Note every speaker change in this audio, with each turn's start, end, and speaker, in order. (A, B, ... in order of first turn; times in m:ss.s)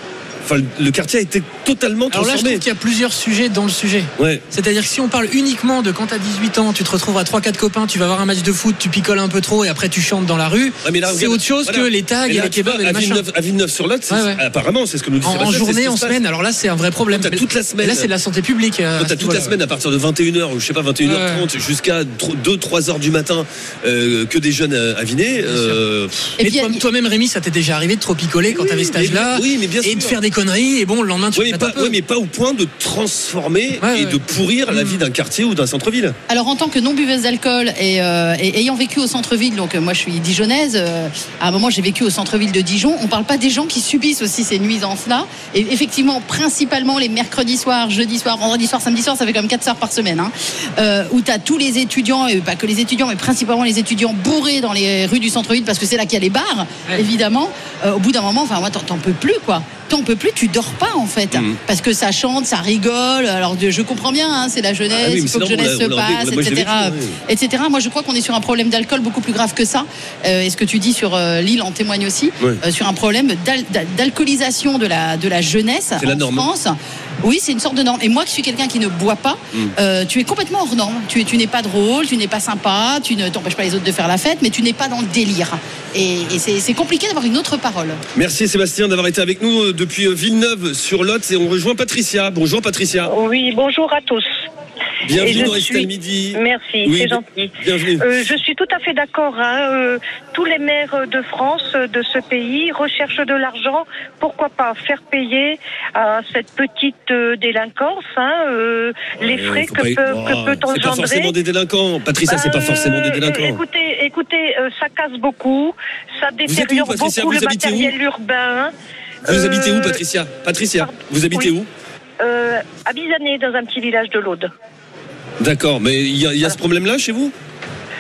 0:00.4-0:02.6 A
0:02.1-0:13.2 B
0:04.2-0:04.4 A
0:10.8-0:16.2 A
0:14.1-0:14.4 B
0:15.2-0:19.6 B
0:17.1-0:18.1 A
0:19.0-0:26.4 A
0:21.0-0:21.4 B
0:25.5-0:25.8 B
0:26.4-0:26.8 C
0:26.4-0:32.0 B
0:28.5-0:30.2 A
0:31.4-0:36.2 A
0:33.8-0:35.0 B
0:36.3-1:28.0 C
1:01.3-1:01.6 A
1:04.9-1:07.2 A
1:16.0-1:16.5 A
1:28.2-1:33.1 A
1:33.1-1:34.3 D
1:35.0-1:38.0 A
1:35.1-1:51.3 D
1:49.2-1:53.6 A
1:52.3-1:58.7 D
1:56.5-1:58.0 A
1:59.3-2:00.0 D
1:59.3-2:01.7 A
2:00.8-2:01.5 D
2:02.2-2:04.5 D
2:05.4-2:07.3 A